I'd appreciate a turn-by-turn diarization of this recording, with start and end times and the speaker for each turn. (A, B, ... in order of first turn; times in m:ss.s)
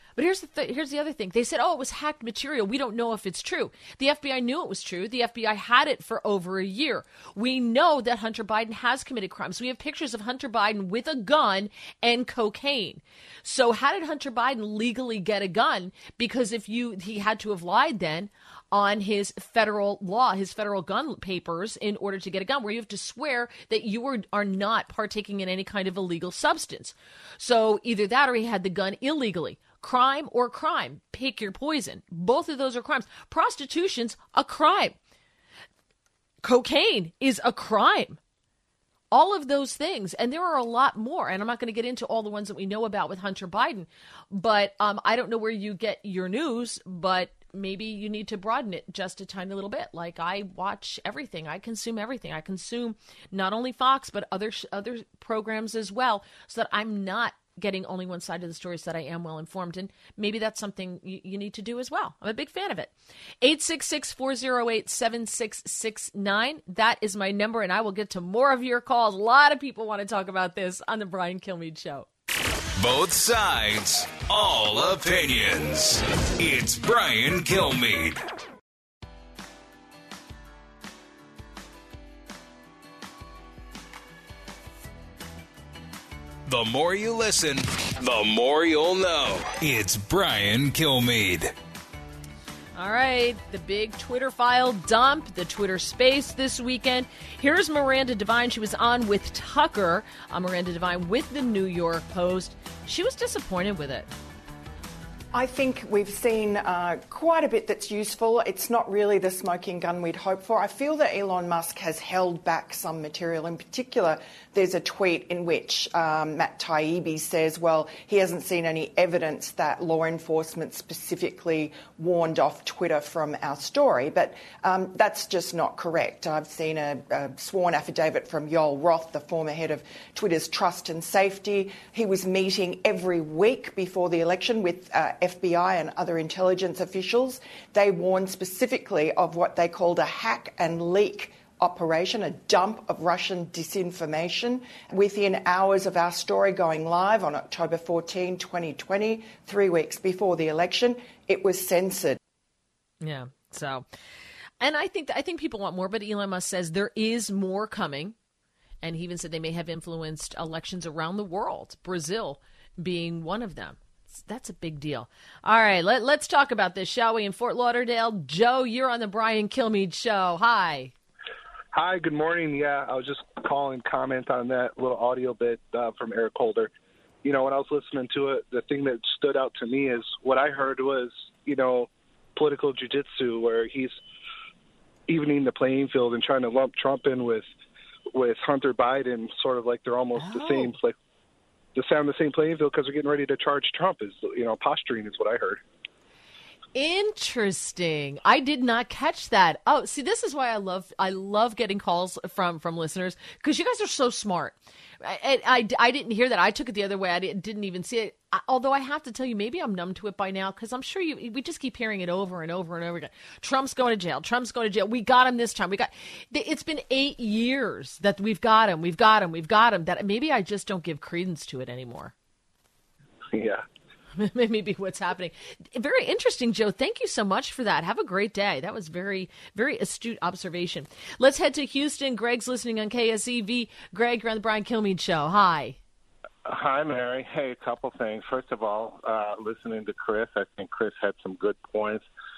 0:00.2-0:35.0 A
0:36.4-0:38.2 A
0:39.1-1:12.1 A
1:12.8-1:18.2 B
1:26.4-1:31.5 B
1:32.8-1:44.1 A
1:45.3-2:32.2 C
2:33.0-2:33.8 A
2:34.6-2:38.1 A
2:38.8-2:50.9 A
2:51.7-2:56.7 D
2:57.2-3:03.9 D
3:05.1-3:07.5 D
3:08.1-3:10.9 D
3:10.1-3:10.7 A
3:11.7-3:15.6 D
3:16.7-3:42.1 A
3:43.3-3:43.6 D
3:44.2-3:55.8 A
3:56.4-4:02.0 E